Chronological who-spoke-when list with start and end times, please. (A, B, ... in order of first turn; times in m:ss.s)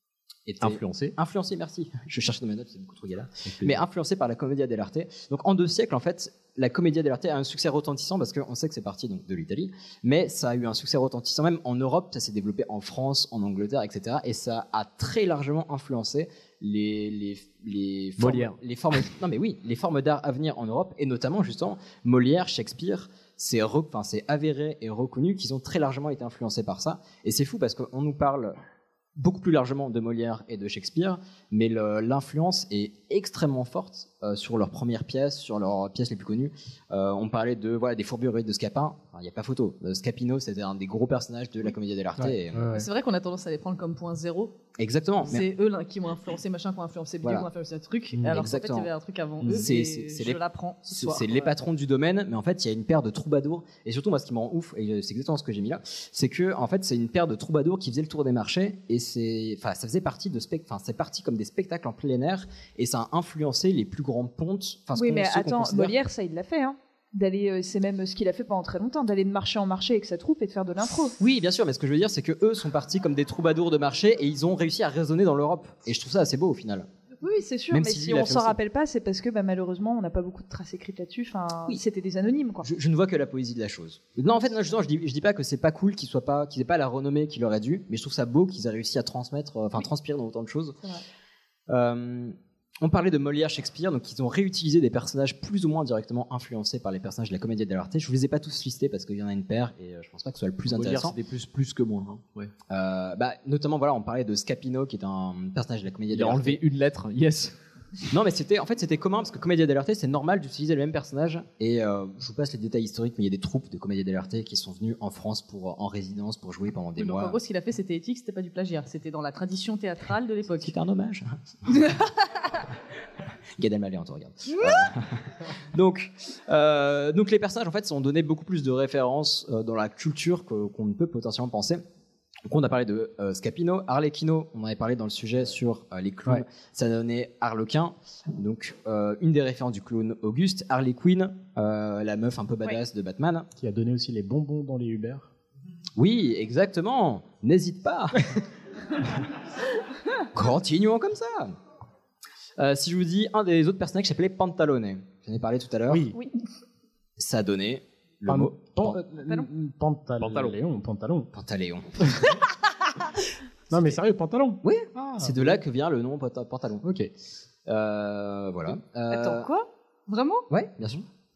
0:00.5-0:28.6 A
0:00.6-0:01.2 B
0:03.5-0:03.8 B
0:18.2-0:18.6 B
0:29.2-0:42.8 A
0:42.2-0:42.9 C
0:42.7-0:44.6 D
0:44.8-0:45.5 A
0:45.3-0:51.5 D
0:48.2-0:48.9 A
0:49.4-1:05.9 A
1:05.0-1:11.2 E
1:11.2-1:16.9 A
1:17.2-1:22.7 E
1:17.7-1:18.6 A
1:22.6-1:30.8 A
1:31.7-1:41.2 A
1:40.7-1:42.5 B
1:42.7-1:46.6 A
1:46.1-1:47.6 B
1:48.1-1:57.4 A
1:57.0-2:00.7 D
2:00.6-2:01.8 A
2:03.6-2:11.8 A
2:04.6-2:04.8 D
2:12.5-2:23.5 A
2:23.6-2:25.3 C
2:26.0-2:28.4 A
2:30.3-2:31.6 A
2:32.6-2:36.1 A
2:35.9-2:36.2 C
2:37.2-2:39.0 A
2:38.3-2:41.3 C
2:40.2-2:40.6 B
2:41.3-2:42.1 A
2:43.7-2:44.6 C
2:44.6-2:46.9 A
2:45.1-2:45.5 C
2:46.8-2:47.1 C
2:47.7-2:49.5 A
2:49.1-2:50.5 D
2:50.5-2:51.1 A